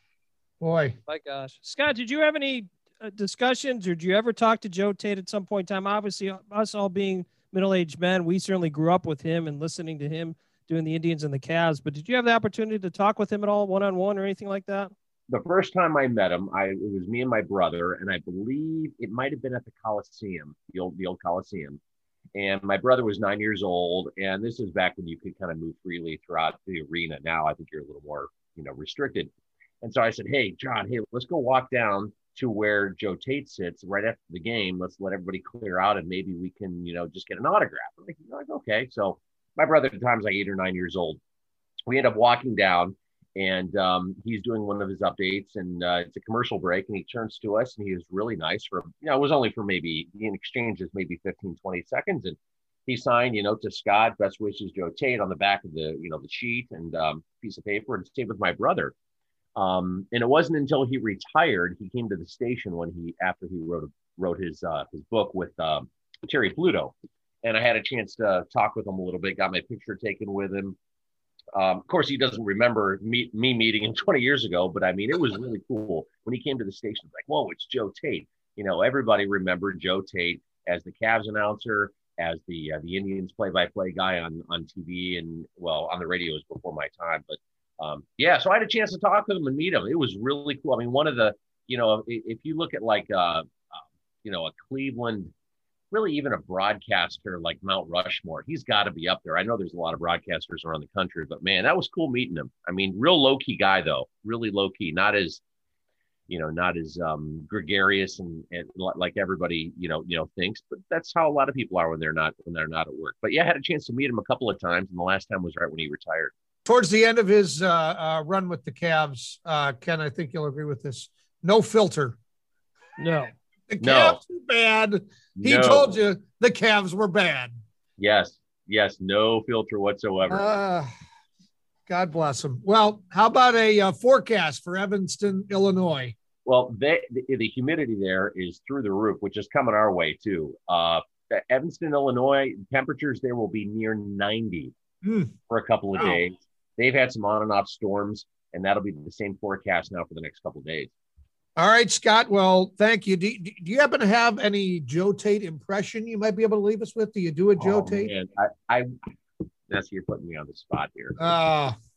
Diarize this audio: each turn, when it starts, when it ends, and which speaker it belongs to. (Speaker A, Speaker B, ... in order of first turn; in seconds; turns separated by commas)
Speaker A: 0.6-1.0, Speaker B: 1.1-14.9, Speaker C: 15.3-21.8, Speaker C: 22.4-29.3, Speaker C: 29.8-41.2, Speaker C: 41.9-58.9, Speaker C: 59.6-70.8, Speaker C: 71.5-95.3, Speaker C: 95.9-105.4, Speaker C: 106.3-116.3, Speaker A: 116.7-122.2, Speaker B: 123.0-123.3, Speaker A: 123.7-127.6, Speaker C: 123.8-124.2, Speaker C: 125.4-126.0, Speaker C: 128.0-130.5, Speaker A: 130.3-130.9, Speaker A: 131.9-136.2, Speaker C: 136.4-144.7, Speaker A: 145.0-145.3, Speaker C: 145.5-150.9, Speaker A: 151.6-158.1, Speaker C: 157.6-158.9, Speaker C: 159.7-161.2, Speaker A: 161.2-161.8